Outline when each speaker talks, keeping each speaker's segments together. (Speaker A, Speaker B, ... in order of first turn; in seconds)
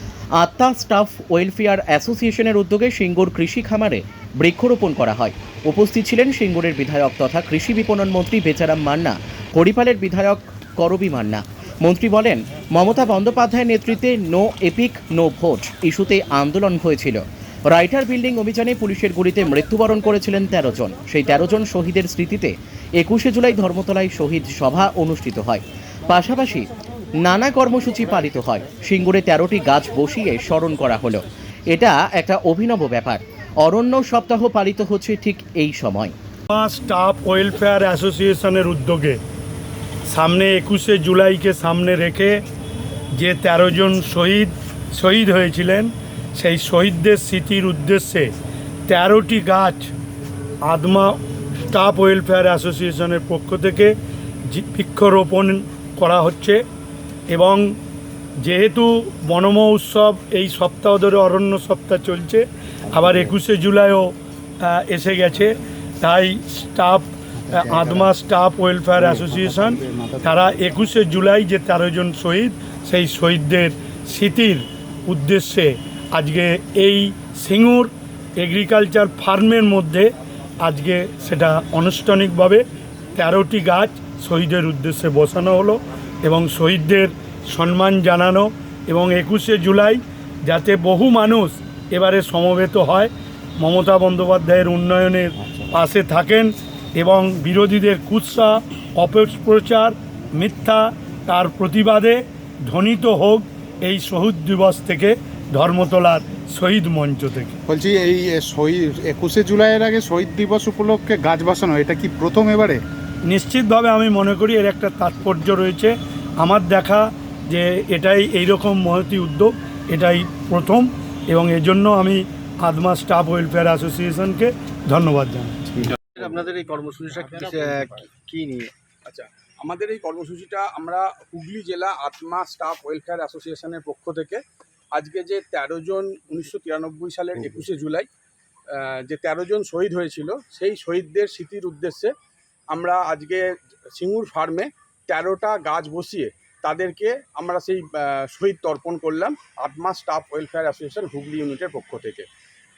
Speaker A: 0.4-26.7, 27.2-36.1
Speaker B: 36.5-39.2, 40.1-42.4, 43.2-48.3, 48.9-49.9, 50.6-51.2, 51.7-53.9, 54.5-56.6, 57.3-57.7, 58.4-82.6, 83.2-107.5, 113.3-125.6
Speaker C: 62.9-63.2, 67.4-68.1, 68.9-70.5, 107.7-112.8, 126.2-126.4, 127.1-128.1
Speaker D: 126.2-128.7
Speaker E: 129.1-134.4, 134.9-138.1, 138.7-142.1, 142.7-143.4, 144.0-152.3